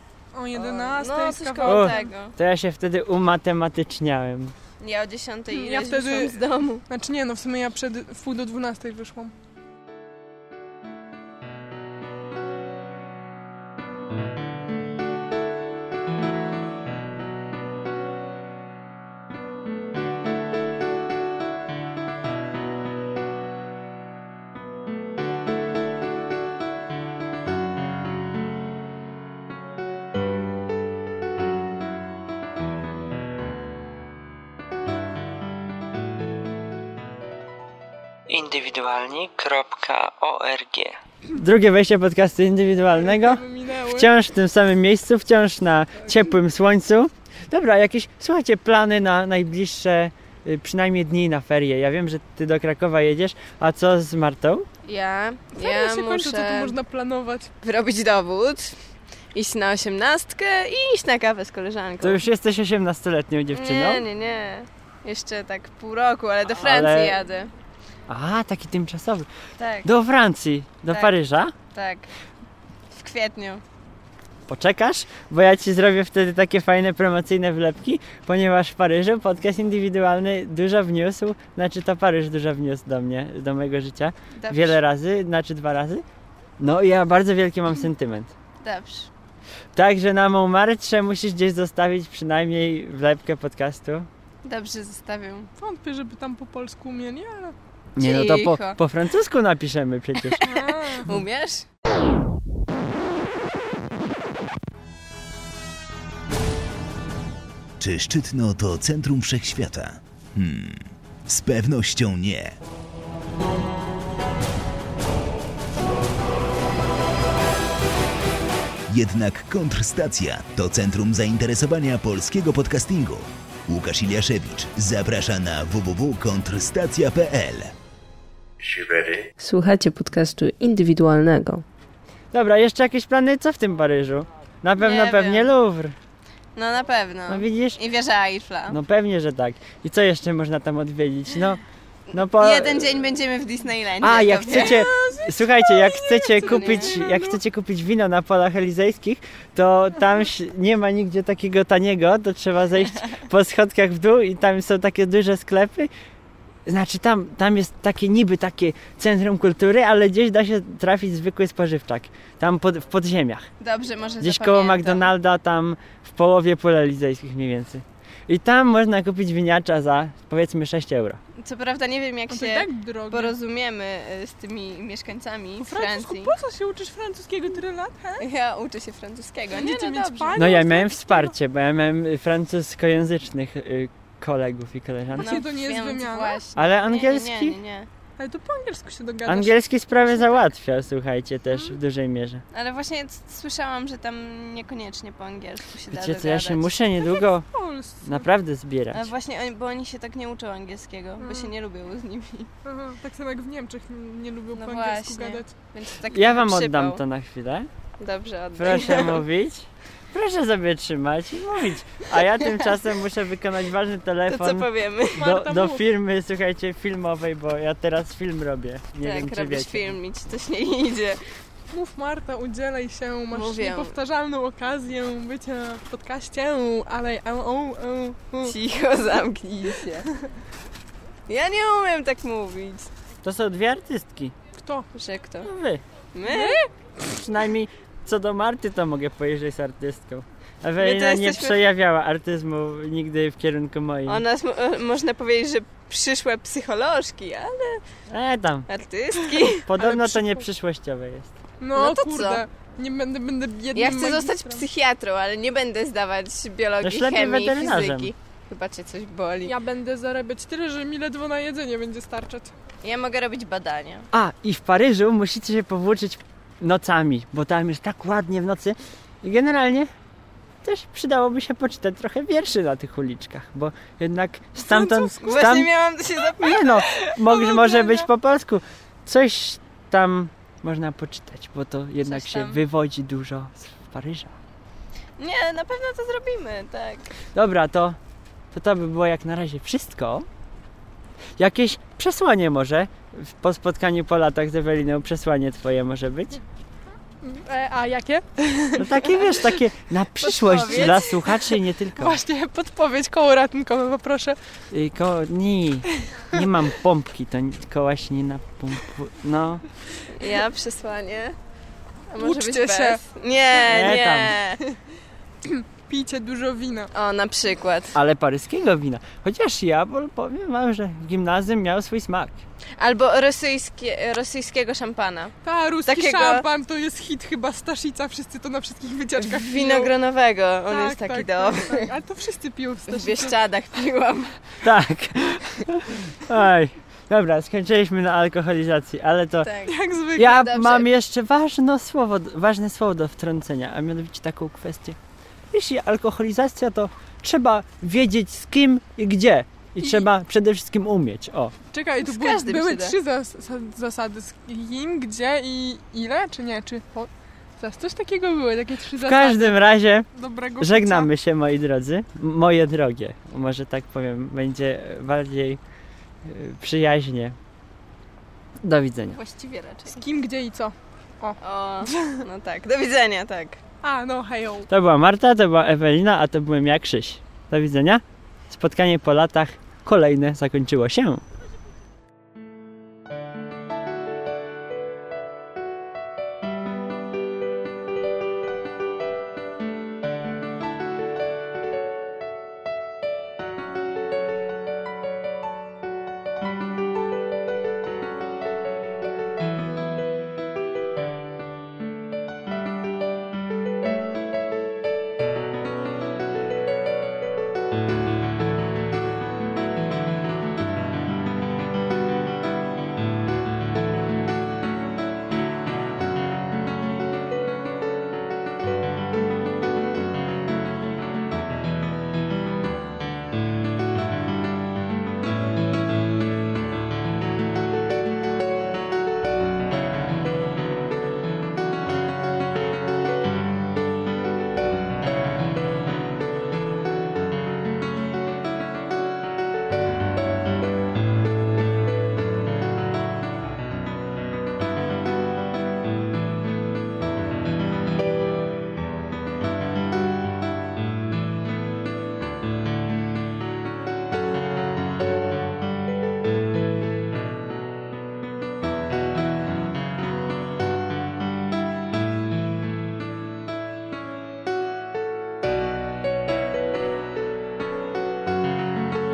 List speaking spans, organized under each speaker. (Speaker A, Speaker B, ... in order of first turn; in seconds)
Speaker A: 0.3-2.1, 5.5-9.3, 42.9-44.1, 55.5-57.5, 95.6-97.5, 100.4-101.2, 144.5-147.4, 172.3-173.3, 175.6-178.2, 179.5-181.3, 185.2-186.4, 188.2-190.2, 197.0-198.2, 201.2-201.5, 202.6-205.5, 215.2-215.8, 221.7-228.5, 234.6-234.9, 236.2-236.6, 249.6-250.4, 251.6-254.7, 259.4-262.5, 274.7-275.5, 297.2-299.3, 302.0-304.4, 312.2-313.0, 315.4-316.9, 325.4-329.9, 330.7-333.4, 339.7-340.4, 349.8-350.1, 351.7-359.6, 360.1-361.1, 369.9-372.1, 373.8-374.7
Speaker B: 0.6-2.4, 4.8-6.8, 54.8-56.7, 57.6-58.8, 59.3-62.2, 63.5-67.5, 69.6-69.9, 70.9-71.2, 71.7-72.1, 72.9-73.6, 84.4-84.8, 88.6-89.1, 94.5-95.5, 98.0-98.8, 101.0-101.6, 134.8-135.5, 136.6-138.8, 142.1-144.9, 146.4-147.0, 163.6-165.1, 171.4-176.3, 178.2-180.5, 185.2-187.9, 192.5-196.7, 198.9-202.5, 204.6-207.0, 208.0-209.2, 212.2-212.8, 214.3-215.3, 219.0-221.2, 223.3-223.9, 228.4-230.1, 231.3-232.9, 234.9-235.5, 236.1-236.7, 240.8-241.6, 244.1-247.8, 248.7-249.7, 251.8-252.4, 253.7-259.5, 262.8-264.1, 275.2-278.0, 282.0-282.6, 285.2-287.1, 300.2-301.4, 310.1-311.4, 312.1-314.6, 316.9-318.0, 322.8-325.3, 325.9-326.5, 329.2-331.9, 332.9-334.4, 339.4-340.9, 352.0-353.0, 369.1-370.0, 371.4-373.6
Speaker C: 1.7-4.5, 38.3-54.7, 62.0-64.0, 66.5-67.2, 68.1-69.3, 69.8-71.5, 74.5-86.0, 86.6-88.3, 89.8-94.1, 98.0-100.4, 132.3-136.0, 137.3-137.8, 138.7-141.6, 142.1-143.0, 144.0-155.9, 156.7-163.4, 164.2-171.2, 180.3-185.4, 186.6-187.6, 189.3-192.4, 195.9-197.5, 198.0-199.1, 206.1-207.7, 208.6-219.9, 233.2-234.3, 235.4-235.8, 237.0-244.2, 248.1-248.7, 249.7-251.3, 256.8-258.1, 264.1-269.9, 270.6-275.7, 276.3-284.4, 287.4-288.0, 288.5-290.3, 291.4-296.4, 298.8-302.2, 304.7-309.6, 313.6-314.4, 317.9-322.4, 334.6-339.5, 340.2-345.0, 345.5-351.5, 359.0-360.1, 360.6-365.6, 366.2-367.4, 368.6-369.2, 374.7-381.2
Speaker D: 107.8-112.5, 118.9-127.7, 128.9-129.2
Speaker E: 129.4-131.6